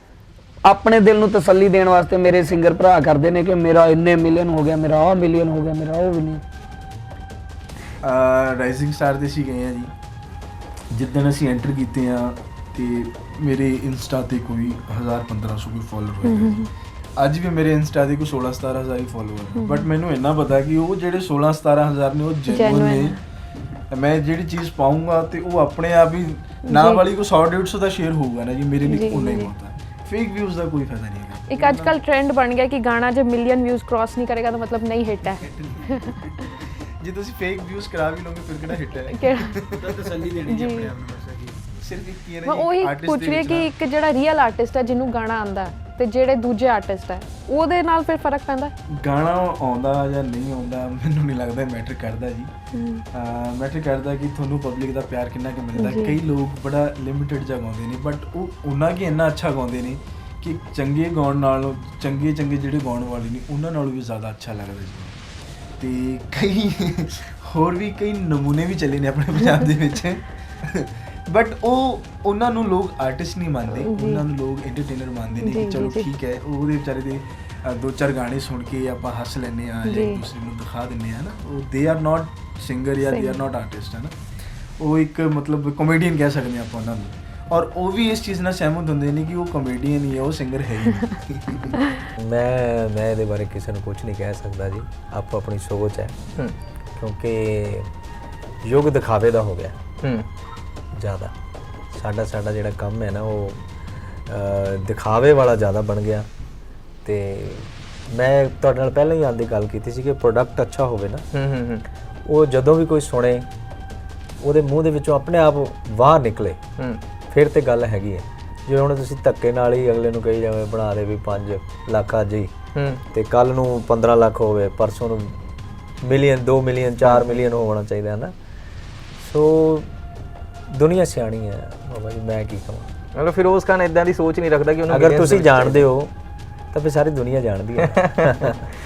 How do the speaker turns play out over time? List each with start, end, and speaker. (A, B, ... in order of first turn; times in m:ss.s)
0:00.6-0:06.4 A
0:08.0-0:09.9 B
0:10.9-0:23.2 B
0:16.2-0:16.7 C
0:19.6-0:19.9 C
0:22.5-0:23.2 C
0:23.9-0:32.0 B
0:26.7-0:27.0 C
0:28.9-0:29.5 C
0:31.5-0:36.2 C
0:35.5-0:35.9 B
0:37.0-0:43.7 B
0:39.1-0:39.5 C
0:40.3-0:41.0 C
0:42.4-0:48.7 C
0:48.9-0:52.5 B
0:52.8-0:53.0 C
0:53.1-1:05.2 B
0:55.8-0:56.2 C
1:05.8-1:24.1 B
1:13.8-1:14.2 C
1:15.4-1:16.1 C
1:19.8-1:20.2 C
1:23.0-1:23.4 C
1:24.8-1:31.7 B
1:32.2-1:36.1 D
1:37.0-1:37.9 D
1:38.6-1:39.8 D
1:41.0-1:41.3 D
1:41.9-1:43.7 D
1:44.3-1:46.3 D
1:47.0-1:51.2 D
1:51.3-1:51.8 E
1:52.3-1:53.5 D
1:54.4-1:56.6 D
1:57.3-2:02.5 D
2:02.8-2:03.0 E
2:03.1-2:05.4 D
2:06.0-2:08.4 D
2:07.0-2:07.4 E
2:09.2-2:09.9 D
2:10.7-2:12.9 D
2:13.1-2:15.9 E
2:14.9-2:16.1 D
2:16.7-2:18.5 D
2:17.8-2:18.1 E